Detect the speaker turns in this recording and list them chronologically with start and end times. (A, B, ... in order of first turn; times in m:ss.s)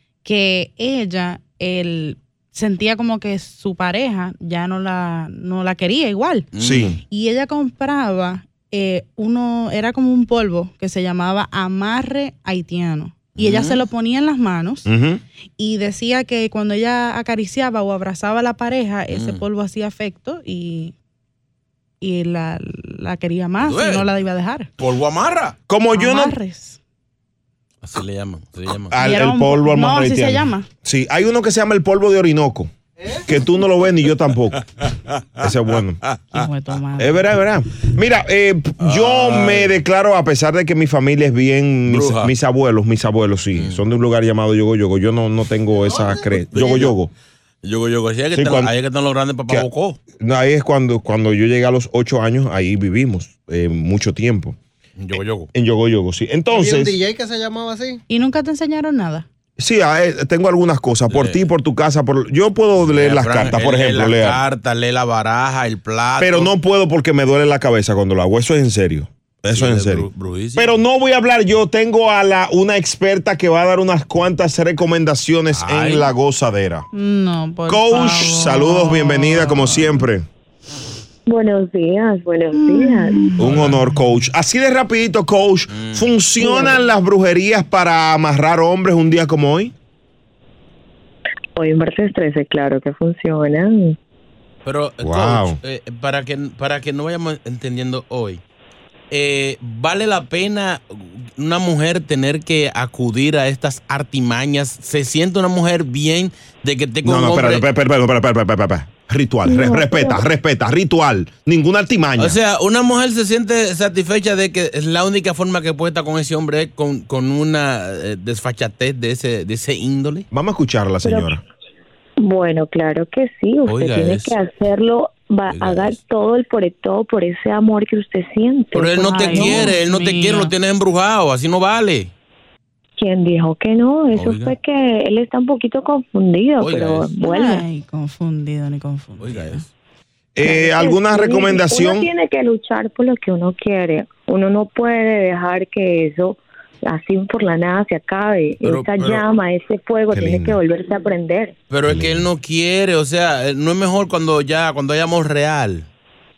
0:00.2-0:06.5 A
0:06.5-0:07.0 B
0:06.6-0:07.0 C
0:07.1-0:14.9 A
0:13.4-0:13.8 B
0:14.9-0:15.2 C
0:15.6-0:20.9 A
0:19.1-0:19.4 B
0:22.0-0:24.7 A
0:23.6-0:24.1 B
0:24.8-0:25.6 B
0:25.7-0:26.3 C
0:25.9-0:26.8 A
0:27.8-0:29.0 B
0:28.9-0:32.7 C
0:29.0-0:30.7 A
0:33.3-0:34.6 C
0:35.4-0:36.0 C
0:36.3-0:37.3 A
0:37.0-0:47.1 C
0:38.8-0:39.8 B
0:41.9-0:42.3 B
0:43.6-0:43.8 B
0:45.8-0:46.7 D
0:46.5-0:47.0 B
0:47.6-0:50.0 B
0:48.3-0:48.7 C
0:50.2-0:54.6 C
0:55.0-0:55.5 B
0:55.5-0:57.0 C
0:56.5-0:58.0 D
0:58.1-0:59.3 A
0:59.6-1:04.4 C
1:01.1-1:01.5 B
1:02.8-1:06.5 B
1:06.2-1:16.9 C
1:09.5-1:10.8 B
1:15.5-1:16.1 B
1:16.9-1:19.7 A
1:17.7-1:20.3 C
1:21.3-1:23.3 E
1:22.6-1:23.2 A
1:23.4-1:29.7 C
1:23.4-1:23.8 B
1:25.7-1:26.1 B
1:26.4-1:26.8 E
1:31.6-1:34.0 E
1:34.6-1:38.4 B
1:35.0-1:35.6 C
1:39.1-1:47.7 B
1:47.0-1:52.4 C
1:49.4-1:50.2 E
1:52.2-2:00.3 B
2:00.3-2:01.4 C
2:01.0-2:01.4 E
2:02.2-2:09.7 E
2:03.7-2:04.4 B
2:05.5-2:06.0 B
2:08.8-2:12.1 B
2:09.0-2:10.5 A
2:13.0-2:17.6 E
2:14.1-2:14.5 B
2:16.6-2:17.1 B
2:17.2-2:19.6 A
2:19.2-2:19.7 B
2:20.4-2:22.1 C
2:20.4-2:31.5 E
2:28.6-2:29.2 B
2:30.1-2:30.6 C
2:31.7-2:35.9 B
2:31.8-2:32.3 C